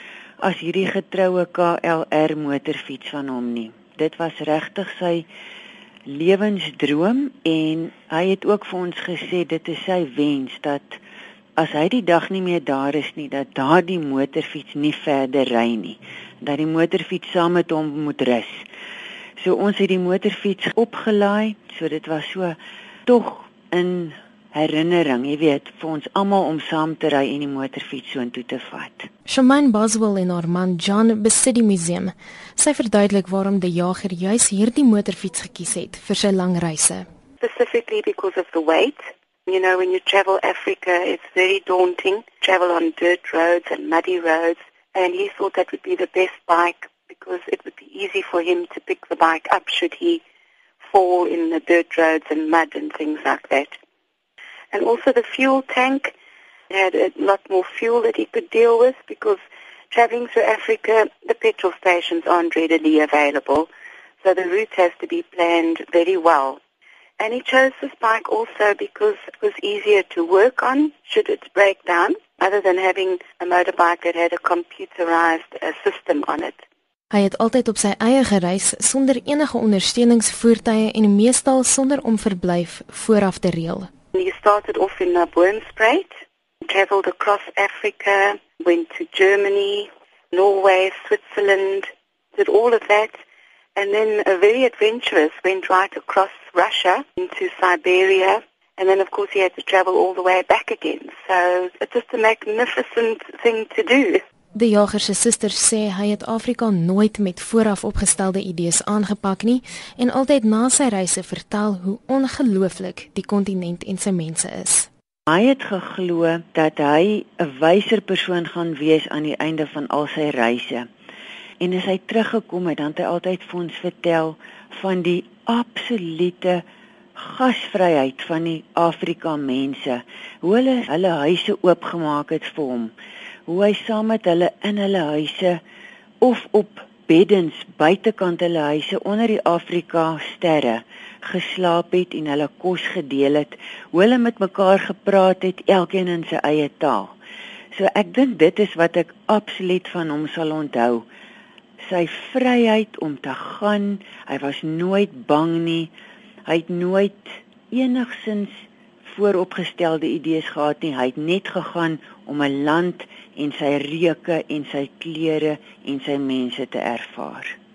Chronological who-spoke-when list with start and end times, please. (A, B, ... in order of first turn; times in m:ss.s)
0:00.4-0:05.3 A
0:06.1-0:11.0 A
0:11.6-0:18.6 A
0:19.4-0:29.1 A
0:29.3-0:37.0 B
0:37.4-0:50.2 C
0:50.8-0:53.8 C
0:54.7-0:56.1 C
0:56.7-1:03.7 C
1:04.2-1:06.6 C
1:07.2-1:16.6 C
1:17.1-1:23.9 B
1:24.1-1:26.1 C
1:26.6-1:33.2 C
1:33.8-1:44.2 C
1:44.5-1:54.9 B
1:55.3-2:00.8 A
2:01.6-2:06.6 A
2:07.2-2:12.9 A
2:13.5-2:15.6 A
2:16.2-2:27.1 A
2:27.7-2:31.0 A
2:31.9-2:35.9 A
2:36.4-2:47.5 A